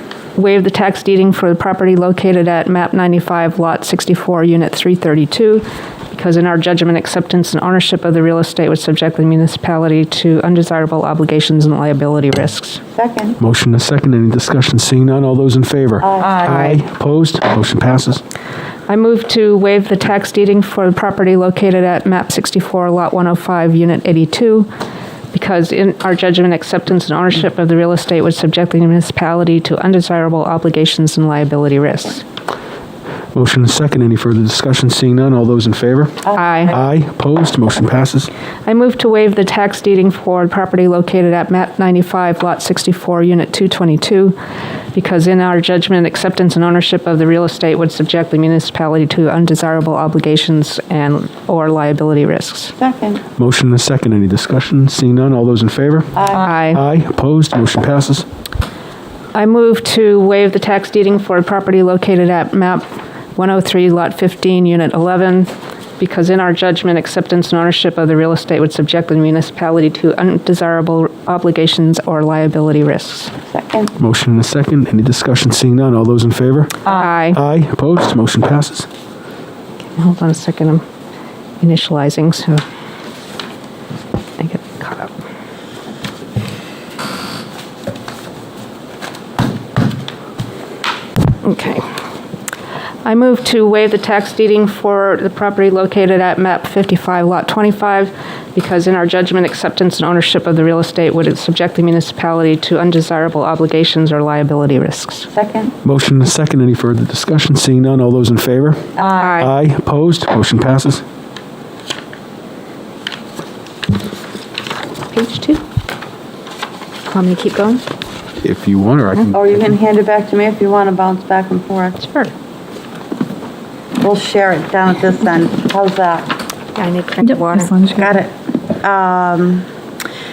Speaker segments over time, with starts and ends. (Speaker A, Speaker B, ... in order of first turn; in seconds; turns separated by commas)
Speaker A: 0.4-12.8, Speaker B: 13.0-13.4, Speaker C: 13.4-18.2, Speaker B: 16.0-16.5, Speaker A: 18.9-24.7, Speaker A: 25.3-32.2, Speaker C: 33.3-38.3, Speaker A: 36.3-36.8, Speaker A: 38.7-44.4, Speaker A: 44.9-52.8, Speaker B: 52.8-53.2, Speaker C: 53.4-56.2, Speaker B: 56.2-56.5, Speaker A: 56.4-56.8, Speaker C: 56.7-58.3, Speaker A: 59.3-73.3, Speaker B: 73.5-73.9, Speaker C: 74.0-78.9, Speaker A: 76.9-77.4, Speaker A: 80.0-80.8, Speaker A: 81.6-82.6, Speaker A: 84.4-85.1, Speaker A: 91.4-91.9, Speaker A: 93.0-105.3, Speaker B: 105.3-105.7, Speaker C: 105.8-111.0, Speaker A: 109.2-109.5, Speaker A: 115.1-115.6, Speaker A: 117.1-117.8, Speaker C: 118.4-119.6, Speaker B: 119.3-122.0, Speaker A: 122.0-122.3, Speaker B: 124.0-126.3, Speaker A: 126.8-128.0, Speaker B: 127.9-129.7